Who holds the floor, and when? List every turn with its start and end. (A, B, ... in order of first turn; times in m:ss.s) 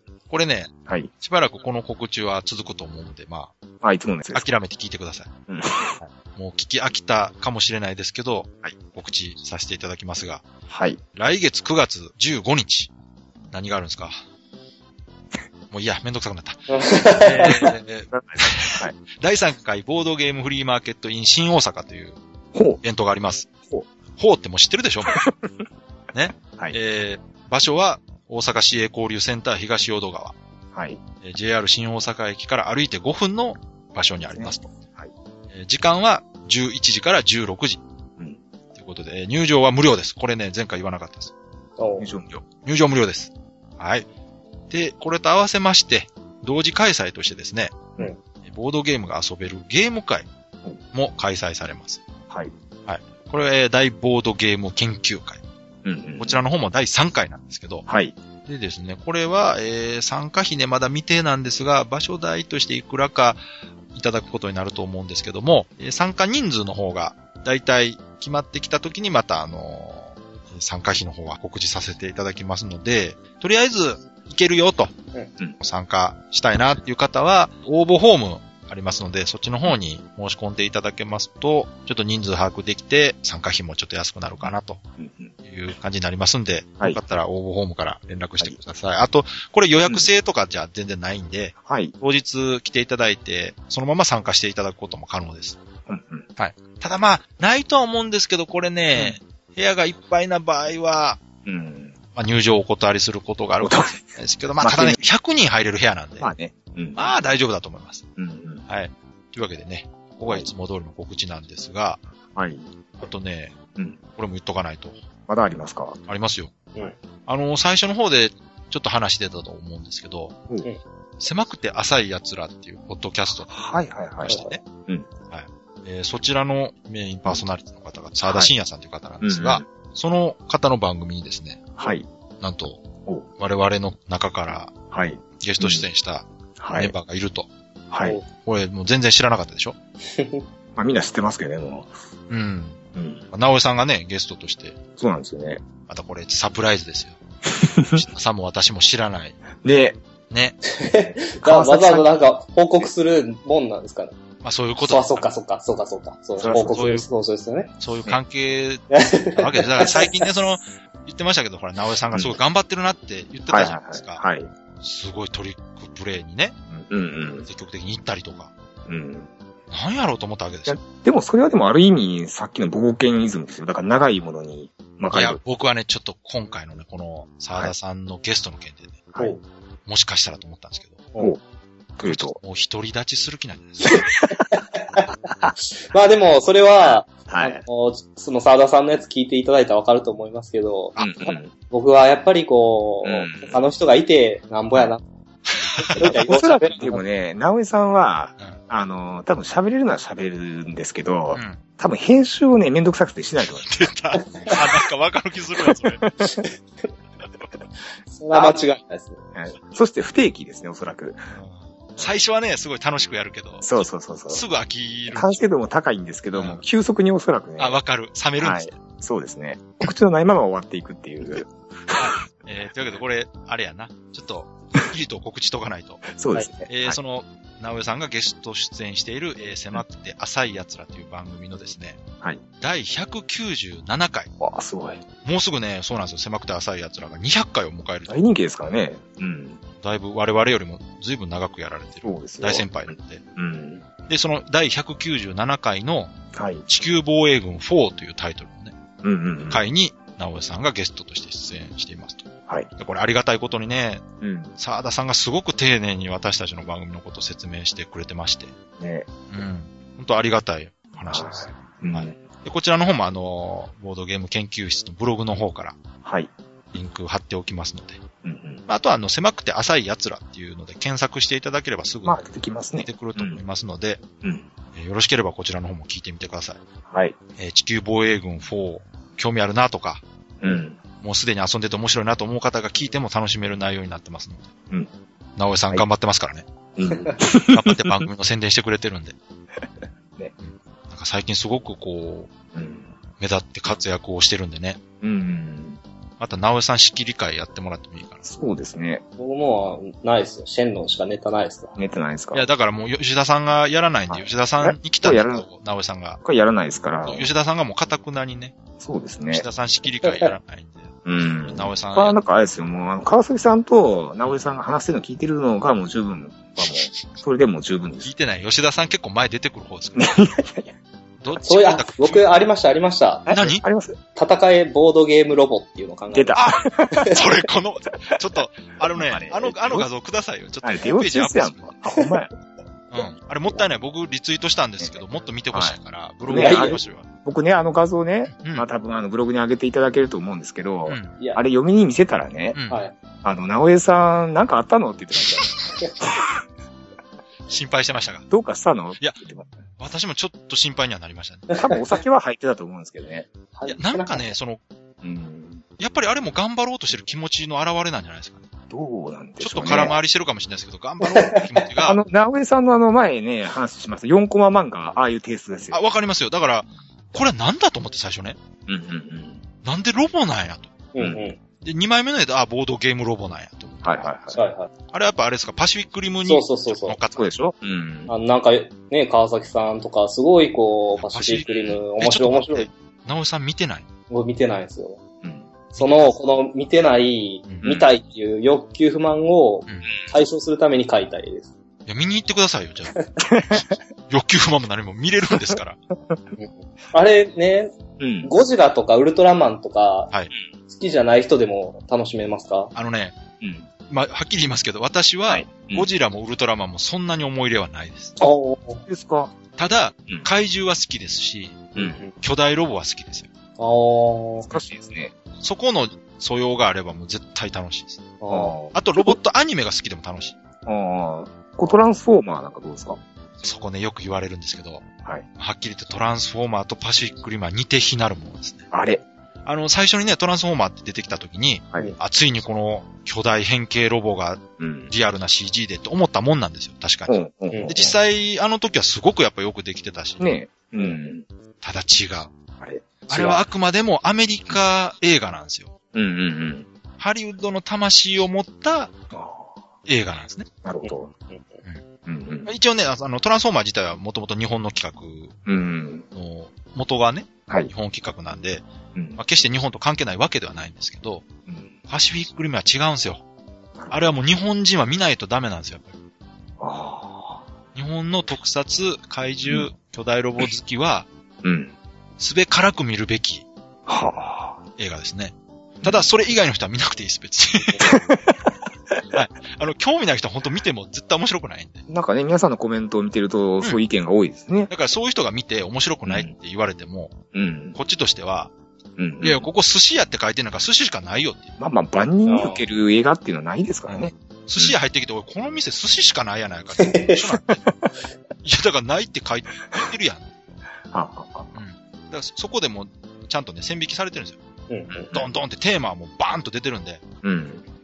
0:00.3-0:03.6 A
0:03.8-0:04.5 B
0:04.3-0:05.3 A
0:05.5-0:06.0 B
0:06.0-0:10.4 A
0:10.7-0:11.0 B
0:11.1-0:12.9 A
0:13.5-0:14.2 A
0:15.7-0:22.2 A
0:16.7-0:17.7 C
0:18.1-0:19.0 B
0:22.5-0:22.8 B
0:22.8-0:23.5 A
0:24.2-0:25.2 A
0:25.2-0:25.5 B
0:26.1-0:30.4 A
0:26.4-0:26.8 B
0:30.7-0:31.0 B
0:31.2-0:34.7 A
0:34.3-0:35.1 B
0:35.5-0:37.8 A
0:38.7-0:41.3 A
0:41.8-0:42.1 C
0:42.0-0:42.4 B
0:42.6-0:44.1 A
0:44.7-0:47.9 A
0:48.4-0:50.3 A
0:50.9-0:52.0 A
0:52.9-0:55.4 A
0:55.8-0:56.4 B
0:56.2-0:57.8 A
0:57.9-0:58.2 B
0:58.4-1:03.4 A
1:03.9-1:14.9 A
1:15.6-1:24.8 A
1:24.4-1:25.3 B
1:25.4-1:35.6 A
1:31.6-1:31.9 B
1:35.9-1:36.3 B
1:36.4-1:41.2 A
1:41.4-1:42.0 B
1:42.2-1:46.3 A
1:43.6-1:44.0 B
1:44.6-1:45.0 B
1:46.2-1:47.1 B
1:47.0-1:48.1 A
1:48.2-1:48.6 B
1:48.7-1:52.0 A
1:52.4-1:52.7 B
1:53.0-1:53.6 A
1:54.2-1:55.0 A
1:55.3-1:56.0 B
1:56.1-1:56.6 A
1:57.3-2:00.4 A
2:01.2-2:03.5 A
2:03.5-2:05.1 B
2:04.2-2:04.6 A
2:04.3-2:04.6 C
2:05.3-2:11.6 A
2:08.3-2:08.5 B
2:09.2-2:09.6 B
2:11.8-2:12.1 B
2:12.4-2:12.8 A
2:13.4-2:14.7 A
2:14.9-2:15.9 B
2:15.4-2:17.5 A
2:16.6-2:17.0 B
2:17.9-2:18.2 B
2:18.4-2:19.8 A
2:20.1-2:20.4 C
2:20.8-2:21.9 B
2:22.3-2:22.8 A
2:23.0-2:23.3 B
2:23.3-2:24.8 A
2:25.0-2:25.6 B
2:25.9-2:27.2 A
2:27.5-2:28.0 B
2:28.0-2:29.4 A
2:29.6-2:30.0 B
2:30.3-2:30.6 A
2:30.7-2:34.2 C
2:31.4-2:32.2 B
2:34.4-2:35.3 A
2:34.8-2:37.7 C
2:36.4-2:36.8 B
2:36.4-2:37.1 A
2:37.8-2:44.2 A
2:38.9-2:40.2 C
2:42.1-2:42.4 B
2:43.5-2:44.5 B
2:44.8-2:46.6 A
2:46.7-2:47.5 B
2:47.5-2:48.5 A
2:48.9-2:49.3 B
2:49.7-2:50.8 A
2:50.7-2:55.4 B
2:55.1-2:59.0 A
2:59.1-2:59.4 B
2:59.9-3:01.0 A
3:02.0-3:02.4 B
3:02.0-3:03.9 A
3:03.9-3:15.0 C
3:06.8-3:07.6 B
3:11.0-3:11.5 B
3:13.0-3:13.6 B
3:15.8-3:16.1 A
3:15.8-3:17.0 C
3:16.0-3:23.7 B
3:21.3-3:21.6 A
3:23.5-3:26.0 A
3:24.2-3:24.6 C
3:25.6-3:26.4 B
3:26.4-3:26.9 C
3:28.1-3:29.2 C
3:29.3-3:31.2 B
3:31.3-3:35.4 A
3:33.6-3:34.4 B
3:35.1-3:37.8 B
3:36.3-3:36.6 A
3:37.6-3:38.8 A
3:38.4-3:42.2 B
3:42.0-3:52.0 A
3:46.1-3:47.0 B
3:52.6-3:54.3 A
3:54.4-3:55.0 B
3:55.2-3:58.2 A
3:58.1-3:59.6 B
3:59.8-4:03.2 A
4:02.0-4:03.8 B
4:04.0-4:06.1 A
4:06.3-4:06.6 B
4:06.7-4:08.8 A
4:09.0-4:09.6 B
4:09.5-4:14.0 A
4:14.2-4:14.6 B
4:14.6-4:18.5 A
4:18.8-4:19.1 B
4:19.3-4:25.8 A
4:21.1-4:22.2 B
4:26.0-4:26.3 B
4:26.7-4:28.0 A
4:28.2-4:28.6 B
4:28.7-4:34.0 A
4:32.0-4:33.4 B
4:34.2-4:34.5 B
4:34.7-4:36.6 A
4:36.9-4:37.2 B
4:37.4-4:40.0 A
4:40.4-4:40.8 B
4:41.0-4:44.5 A
4:45.4-4:46.5 A
4:46.8-4:48.1 B
4:47.5-4:49.2 A
4:50.4-4:52.3 A
4:52.5-4:52.9 B
4:53.2-4:54.8 A
4:55.0-4:55.8 B
4:56.2-4:58.2 A
4:58.2-4:59.0 B
4:59.2-5:01.8 C
5:01.8-5:02.5 B
5:02.3-5:06.2 A
5:04.1-5:05.5 B
5:06.2-5:07.3 B
5:07.1-5:08.5 A
5:08.8-5:09.5 B
5:09.3-5:12.2 A
5:10.0-5:10.3 C
5:11.1-5:18.1 B
5:16.6-5:17.0 A
5:18.0-5:20.2 A
5:20.0-5:20.7 B
5:21.2-5:22.3 A
5:21.4-5:23.3 C
5:23.3-5:24.0 B
5:23.3-5:23.6 A
5:24.2-5:26.4 C
5:26.1-5:27.1 B
5:26.4-5:31.8 A
5:26.9-5:27.2 C
5:28.8-5:29.9 B
5:30.6-5:32.3 B
5:32.9-5:37.1 A
5:35.5-5:42.6 B
5:36.4-5:36.8 C
5:38.3-5:38.7 A
5:40.9-5:41.2 A
5:42.5-5:42.8 A
5:42.7-5:43.0 C
5:43.2-5:46.4 B
5:47.5-5:48.3 A
5:48.3-5:49.6 B
5:49.8-5:51.5 A
5:51.6-5:53.3 B
5:53.5-5:54.3 C
5:53.7-5:54.6 A
5:55.0-5:55.6 B
5:55.8-5:58.5 A
5:58.7-6:00.0 B
5:59.4-6:02.0 A
6:01.0-6:01.4 C
6:01.8-6:05.8 B
6:05.7-6:08.4 A
6:08.7-6:09.4 B
6:09.6-6:10.7 A
6:10.9-6:11.4 C
6:11.0-6:11.2 B
6:11.6-6:14.1 A
6:13.8-6:14.4 B
6:14.4-6:14.7 C
6:14.9-6:17.3 A
6:16.3-6:17.0 C
6:17.2-6:18.1 B
6:18.1-6:22.7 C
6:21.0-6:23.9 A
6:24.1-6:25.0 C
6:25.2-6:25.6 B
6:25.8-6:26.2 A
6:25.8-6:31.5 C
6:27.5-6:27.8 A
6:31.9-6:33.0 A
6:33.2-6:33.6 B
6:34.1-6:35.8 A
6:36.4-6:40.1 C
6:38.0-6:38.3 B
6:40.7-6:42.7 C
6:42.8-6:43.2 A
6:43.4-6:43.7 B
6:43.9-6:48.1 A
6:45.3-6:45.9 B
6:48.2-6:48.8 C
6:48.9-6:49.4 B
6:49.6-6:53.3 A
6:51.8-6:52.1 C
6:53.6-6:54.5 C
6:54.5-6:55.1 B
6:55.4-6:58.0 A
6:58.2-6:58.6 C
6:58.3-6:59.2 B
6:58.7-7:00.4 A
7:00.7-7:03.0 B
7:03.4-7:04.8 A
7:05.4-7:08.7 A
7:08.7-7:09.0 B
7:09.4-7:20.2 A
7:14.6-7:14.9 B
7:17.1-7:18.0 B
7:17.5-7:17.8 C
7:20.2-7:21.2 B
7:21.6-7:22.3 A
7:22.6-7:23.4 B
7:23.1-7:25.7 A
7:25.9-7:26.7 B
7:27.0-7:28.9 A
7:29.1-7:29.6 B
7:29.9-7:30.5 A
7:30.6-7:31.1 B
7:30.8-7:31.4 C
7:32.0-7:32.5 B
7:32.4-7:35.4 A
7:35.5-7:36.1 B
7:36.2-7:38.6 A
7:38.9-7:39.2 B
7:39.2-7:41.2 A
7:41.5-7:41.7 B
7:41.9-7:43.2 A
7:43.9-7:46.0 A
7:46.6-7:47.4 B
7:47.8-7:51.1 A
7:51.4-7:51.8 B
7:52.2-7:53.5 A
7:53.9-7:54.6 B
7:54.8-7:57.9 A
7:57.8-7:59.0 B
7:59.1-8:01.8 A
8:01.9-8:04.7 B
8:04.7-8:07.2 A
8:06.1-8:06.3 B
8:07.3-8:07.8 B
8:07.8-8:08.5 A
8:09.0-8:09.5 B
8:09.2-8:11.5 A
8:11.6-8:14.8 B
8:12.3-8:12.6 C
8:13.9-8:17.8 A
8:16.8-8:17.2 C
8:18.4-8:20.3 A
8:20.9-8:21.5 B
8:21.6-8:24.4 A
8:24.7-8:25.1 C
8:25.1-8:25.4 B
8:25.1-8:27.0 A
8:27.2-8:27.6 B